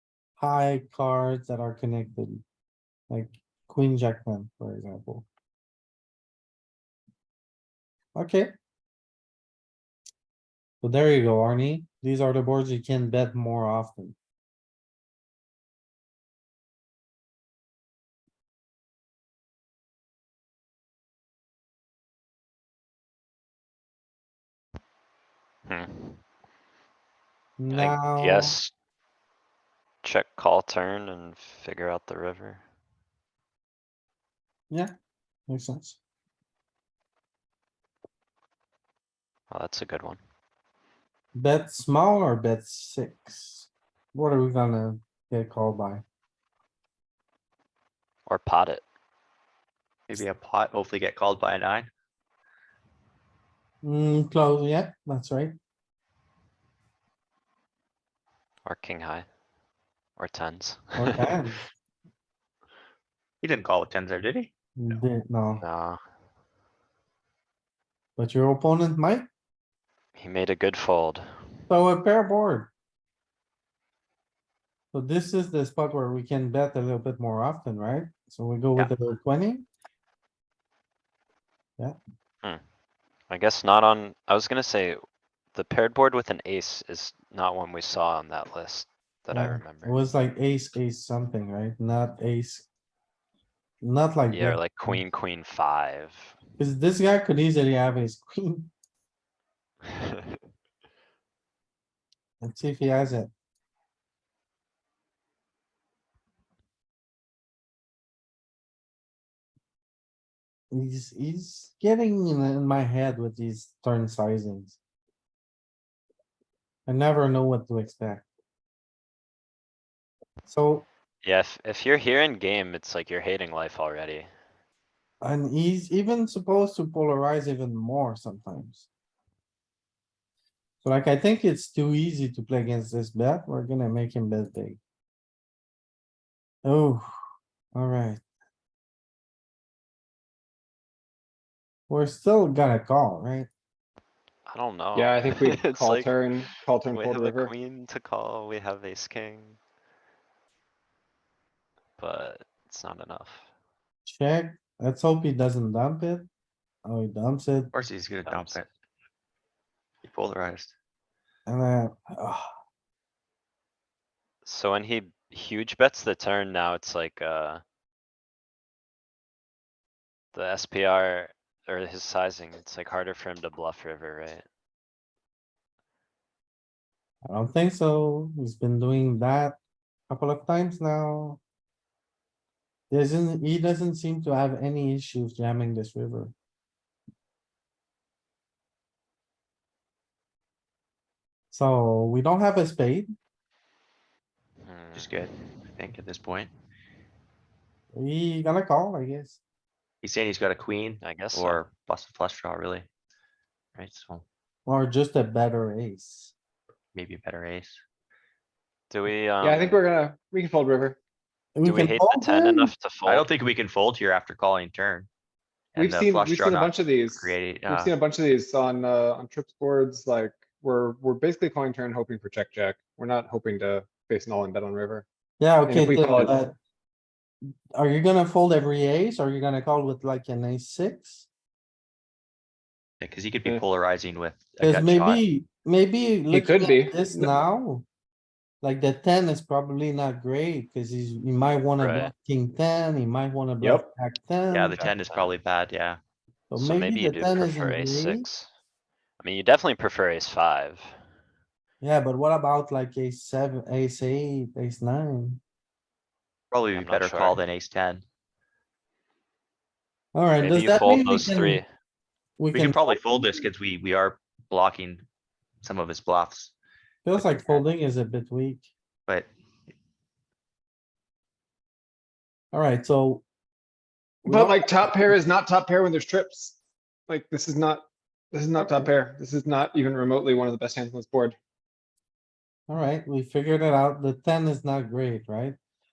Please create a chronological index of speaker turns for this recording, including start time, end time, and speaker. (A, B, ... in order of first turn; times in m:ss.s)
0:00.4-0:02.4 A
0:03.1-0:05.2 A
0:08.1-0:08.5 A
0:10.8-0:14.2 A
0:25.6-0:26.2 B
0:27.6-0:28.6 A
0:27.7-0:28.7 B
0:30.0-0:32.6 B
0:35.5-0:36.0 A
0:39.5-0:40.2 B
0:41.3-0:46.0 A
0:48.3-0:48.8 B
0:50.1-0:51.9 C
0:53.8-0:55.5 A
0:58.6-0:59.3 B
1:00.2-1:01.3 B
1:01.0-1:01.6 A
1:03.4-1:04.5 C
1:04.8-1:05.6 A
1:05.6-1:06.0 B
1:08.2-1:09.2 A
1:10.2-1:11.3 B
1:11.7-1:12.7 A
1:14.9-1:19.6 A
1:23.3-1:25.0 B
1:25.5-1:30.0 B
1:29.3-1:32.7 A
1:33.8-1:35.0 A
1:34.3-1:36.4 B
1:36.6-1:38.7 A
1:42.4-1:43.3 A
1:50.7-1:54.8 A
1:56.9-1:58.2 A
2:00.4-2:00.8 A
2:01.2-2:04.3 B
2:05.2-2:08.9 A
2:10.8-2:14.8 A
2:16.6-2:17.0 A
2:17.7-2:18.2 A
2:21.9-2:23.5 A
2:24.5-2:29.6 B
2:24.9-2:27.5 D
2:32.0-2:33.4 B
2:34.0-2:36.3 A
2:36.8-2:37.7 A
2:37.7-2:38.6 C
2:38.2-2:38.6 B
2:40.0-2:40.7 C
2:41.4-2:42.5 A
2:44.4-2:47.6 B
2:50.3-2:54.4 B
2:57.3-2:59.6 A
3:00.1-3:01.4 A
3:02.9-3:06.3 A
3:11.5-3:13.1 A
3:14.6-3:15.2 B
3:14.9-3:16.5 C
3:17.9-3:19.4 A
3:20.0-3:22.9 C
3:21.0-3:21.6 B
3:23.7-3:24.2 C
3:24.6-3:26.3 A
3:26.9-3:27.8 C
3:28.9-3:29.8 B
3:29.4-3:31.0 D
3:31.5-3:32.7 A
3:31.6-3:33.3 B
3:33.0-3:35.1 C
3:35.7-3:37.9 C
3:35.8-3:45.0 D
3:45.4-3:46.5 A
3:45.7-3:46.4 D
3:47.7-3:51.3 A
3:53.0-3:55.2 C
3:54.6-3:57.8 A
3:56.3-3:57.4 D
3:58.6-4:04.8 A
4:01.8-4:02.1 B
4:03.6-4:03.9 D
4:04.5-4:06.0 C
4:04.8-4:05.4 B
4:06.5-4:08.2 A
4:06.6-4:08.5 B
4:09.2-4:10.9 B
4:11.8-4:15.4 A
4:16.5-4:18.0 C
4:16.7-4:17.4 B
4:20.1-4:21.6 A
4:20.4-4:21.7 B
4:22.4-4:23.0 A
4:22.5-4:25.0 C
4:25.6-4:26.5 C
4:27.0-4:28.7 A
4:27.2-4:27.6 B
4:32.5-4:33.2 A
4:34.2-4:35.1 A
4:34.3-4:41.4 D
4:38.6-4:38.9 A
4:42.7-4:45.6 A